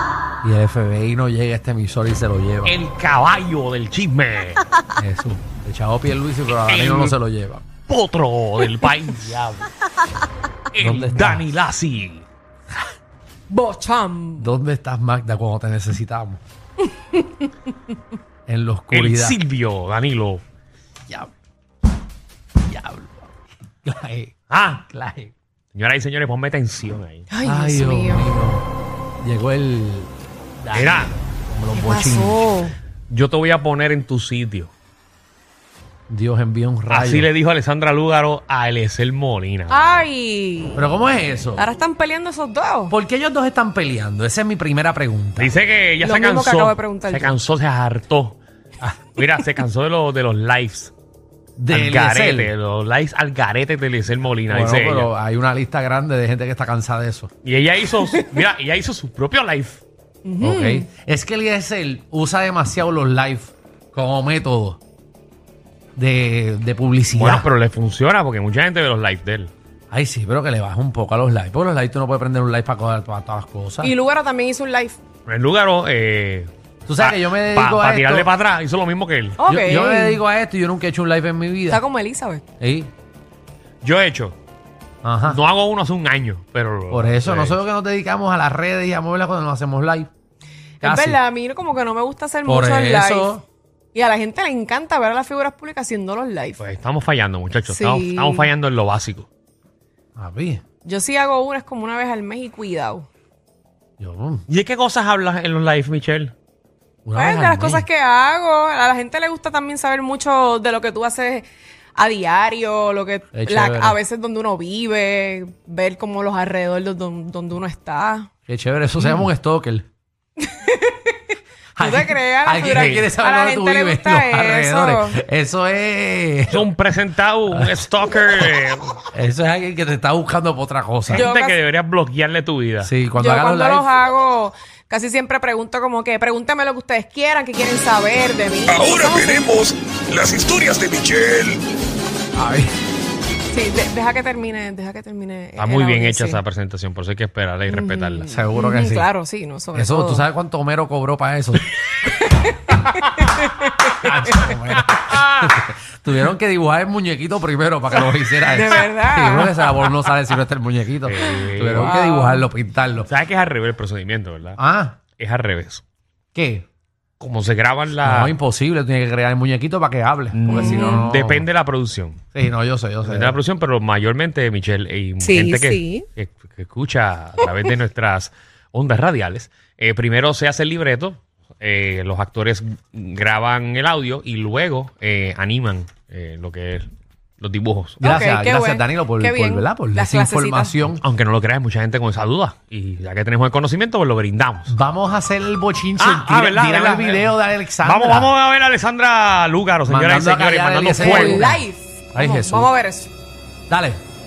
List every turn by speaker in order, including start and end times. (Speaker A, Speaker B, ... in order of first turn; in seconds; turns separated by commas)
Speaker A: 0.4-2.7, Speaker B: 2.6-4.6, Speaker A: 5.0-7.6, Speaker B: 6.5-7.2, Speaker B: 7.8-9.7, Speaker B: 10.7-12.2, Speaker A: 10.8-11.4, Speaker C: 13.5-14.5, Speaker A: 14.4-16.4, Speaker A: 18.5-19.4, Speaker B: 18.9-20.4, Speaker A: 22.6-23.3, Speaker A: 23.8-24.3, Speaker B: 24.5-24.9, Speaker A: 24.9-25.3, Speaker B: 25.7-27.3, Speaker C: 27.3-28.3, Speaker A: 27.4-28.6, Speaker A: 29.2-30.1, Speaker A: 30.6-32.5, Speaker B: 30.7-31.1, Speaker C: 31.7-32.8, Speaker B: 33.1-34.7, Speaker A: 36.1-37.3, Speaker B: 36.9-40.0, Speaker C: 39.7-40.9, Speaker A: 40.8-41.7, Speaker C: 41.6-42.9, Speaker A: 42.9-45.5, Speaker B: 45.4-48.4, Speaker C: 46.0-47.4, Speaker B: 49.1-50.9, Speaker A: 51.6-52.5, Speaker B: 51.7-55.1, Speaker A: 54.5-57.3, Speaker B: 57.4-59.8, Speaker C: 58.0-58.4, Speaker C: 60.2-60.9, Speaker A: 60.4-64.8, Speaker A: 66.0-67.5, Speaker B: 67.1-69.5, Speaker A: 69.9-73.9, Speaker C: 73.8-75.0, Speaker B: 75.2-79.5, Speaker A: 76.9-78.3, Speaker C: 79.4-80.2, Speaker A: 79.5-81.8, Speaker C: 81.7-82.4, Speaker A: 82.6-82.9, Speaker B: 83.8-84.3, Speaker A: 85.0-85.4, Speaker B: 85.2-87.6, Speaker A: 86.9-90.1, Speaker C: 90.8-93.4, Speaker A: 90.8-91.2, Speaker A: 92.5-93.4, Speaker C: 93.9-96.6, Speaker B: 96.6-99.3, Speaker C: 97.7-98.5, Speaker A: 100.2-100.6, Speaker C: 100.8-103.0, Speaker A: 104.0-104.4, Speaker B: 104.5-106.3, Speaker A: 107.0-107.8, Speaker C: 107.1-111.5, Speaker C: 112.0-118.3, Speaker A: 113.3-114.0, Speaker A: 118.5-119.8, Speaker C: 120.4-121.2, Speaker A: 121.8-126.7, Speaker C: 121.8-125.2, Speaker B: 122.6-123.1, Speaker B: 126.5-129.0, Speaker A: 129.1-131.3, Speaker B: 131.1-132.9, Speaker C: 131.1-131.6, Speaker A: 132.8-133.9, Speaker C: 133.2-139.5, Speaker D: 138.7-141.6, Speaker A: 142.3-142.7, Speaker C: 143.5-146.4, Speaker B: 145.6-148.3, Speaker C: 147.7-150.2, Speaker A: 148.3-149.1, Speaker A: 149.7-151.7, Speaker C: 152.0-154.8, Speaker A: 154.0-163.1, Speaker B: 155.2-155.5, Speaker C: 158.5-159.9, Speaker B: 161.0-162.0, Speaker C: 161.3-162.5, Speaker B: 163.1-165.8, Speaker A: 164.6-165.0, Speaker A: 166.3-166.7, Speaker B: 167.2-168.3, Speaker A: 168.0-171.4, Speaker B: 170.3-172.2, Speaker C: 170.5-171.1, Speaker A: 172.3-173.4, Speaker B: 173.0-186.9, Speaker C: 175.2-176.1, Speaker B: 187.4-188.0, Speaker C: 188.0-190.8, Speaker A: 188.0-191.0, Speaker B: 191.0-194.7, Speaker A: 194.7-198.3, Speaker B: 196.0-201.6, Speaker A: 199.8-201.6, Speaker C: 200.9-203.1, Speaker A: 202.1-202.7, Speaker A: 203.7-204.0